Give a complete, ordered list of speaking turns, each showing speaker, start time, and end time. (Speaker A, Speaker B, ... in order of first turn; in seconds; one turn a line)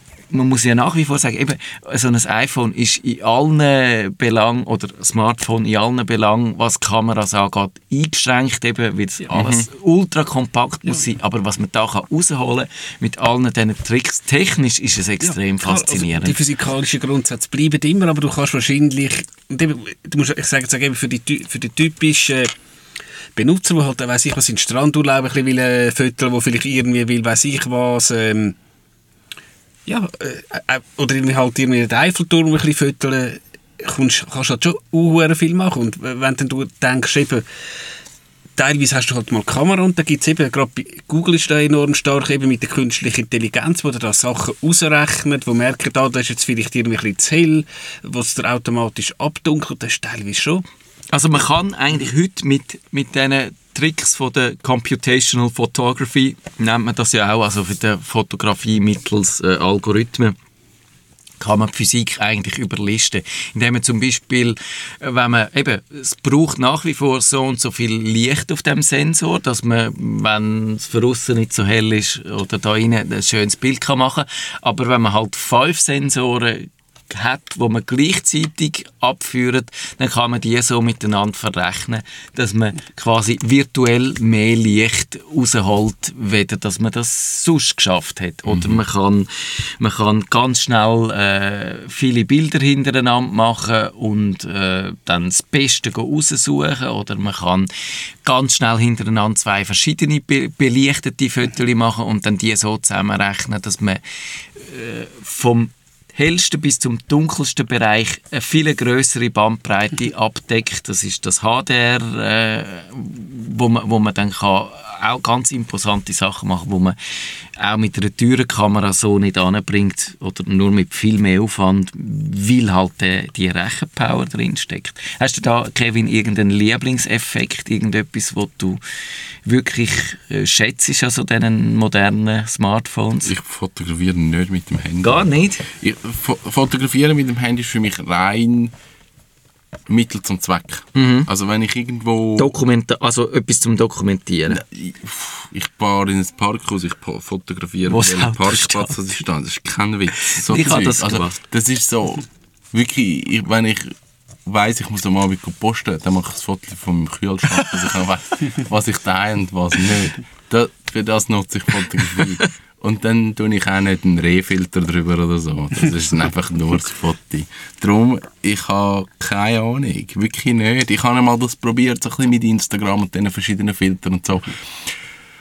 Speaker A: 0.3-16.4
Speaker B: 9.3-9.7
Speaker C: 15.2-22.5
Speaker C: 23.4-28.6
Speaker C: 29.9-37.4
Speaker C: 38.6-50.6
Speaker A: 51.1-60.4
Speaker A: 61.4-97.7
Speaker B: 88.5-88.8
Speaker A: 98.2-104.0
Speaker A: 104.5-117.0
Speaker A: 117.6-128.8
Speaker A: 129.4-133.3
Speaker B: 133.2-138.7
Speaker A: 135.0-135.7
Speaker B: 139.9-142.5
Speaker A: 140.9-141.3
Speaker A: 142.4-144.6
Speaker B: 144.5-174.9
Speaker A: 147.9-149.1
Speaker A: 150.2-151.4
Speaker A: 162.1-162.5